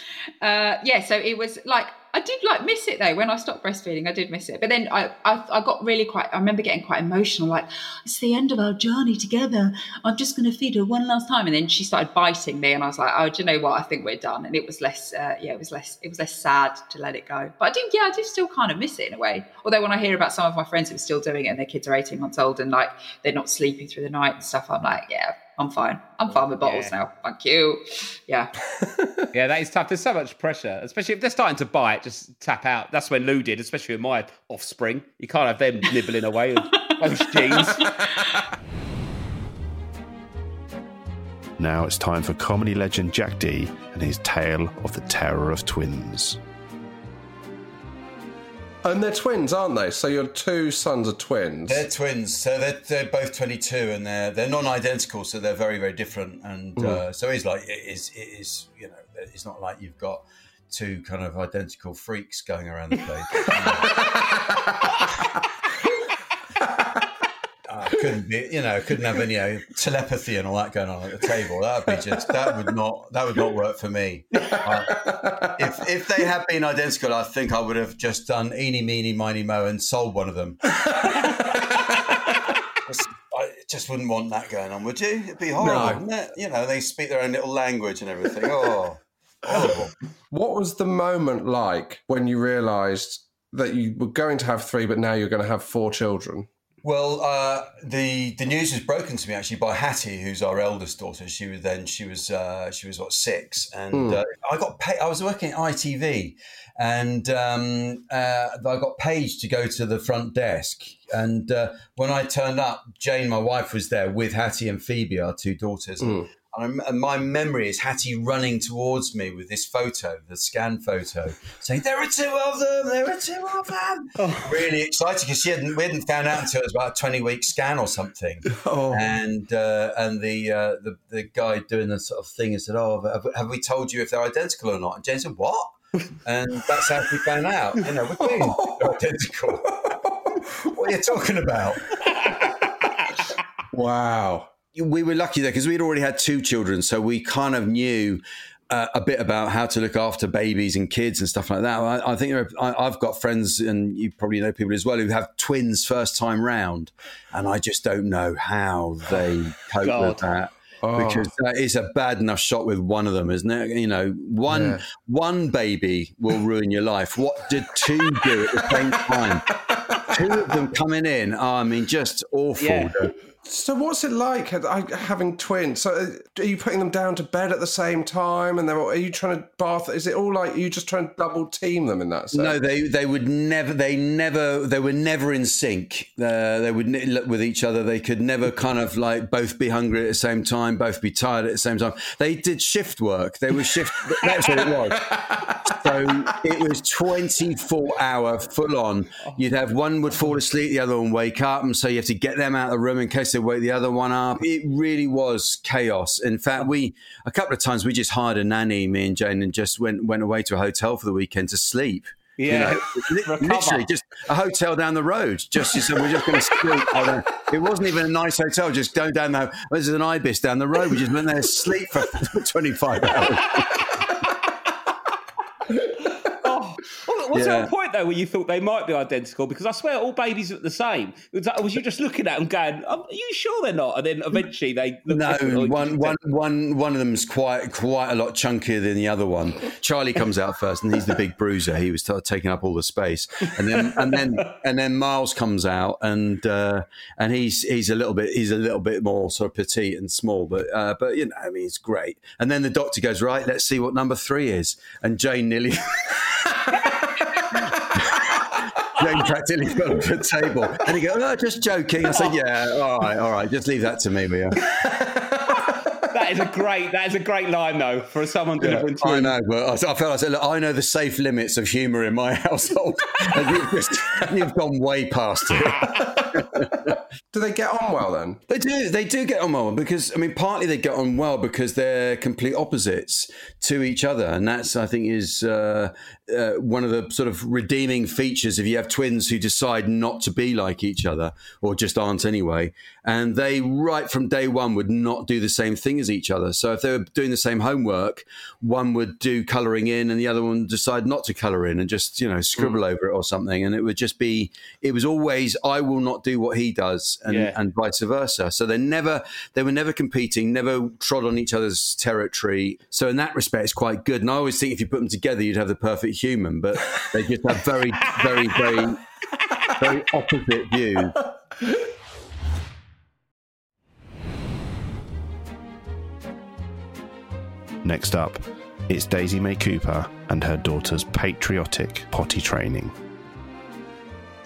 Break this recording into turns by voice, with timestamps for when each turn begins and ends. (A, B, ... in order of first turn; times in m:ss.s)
0:00.4-0:28.5 A
0:26.6-0:27.0 B
0:28.8-0:29.2 C
0:29.3-0:37.9 B
0:36.7-0:38.4 A
0:41.6-0:46.4 D
0:48.8-0:51.8 C
0:51.7-1:03.9 E
0:56.8-0:57.0 C
1:03.6-1:04.3 C
1:07.7-1:15.0 E
1:11.9-1:12.7 C
1:14.5-1:15.7 C
1:15.6-1:20.6 E
1:20.8-1:21.6 C
1:22.9-1:29.9 E
1:25.6-1:26.0 C
1:29.5-1:36.5 C
1:36.8-2:15.7 E
1:43.9-1:44.2 C
1:56.0-1:56.3 C
2:04.2-2:04.5 C
2:08.5-2:09.1 C
2:16.2-2:19.7 E
2:18.2-2:19.0 C
2:19.6-2:20.5 C
2:20.7-2:21.8 E
2:23.7-2:24.5 C
2:24.7-2:49.5 E
2:39.8-2:40.2 B
2:40.8-2:41.3 C
2:44.5-2:44.8 C
2:48.2-2:50.3 C
2:50.1-2:53.1 E
2:52.6-2:52.9 B
2:53.4-3:02.6 C
3:02.3-3:15.0 E
3:14.1-3:15.8 C
3:15.7-3:43.8 E
3:32.4-3:33.9 B
3:46.4-3:56.2 B
3:47.3-3:47.7 E
3:55.1-4:15.8 E
4:03.8-4:04.2 B
4:19.0-4:24.6 E
4:24.8-4:25.4 C
4:26.1-4:29.4 B
4:28.7-4:36.9 E
4:35.5-4:36.3 B
4:35.9-4:38.4 C
4:38.5-5:19.0 E
5:07.3-5:07.6 B
5:19.8-5:21.2 E
5:27.8-5:32.9 D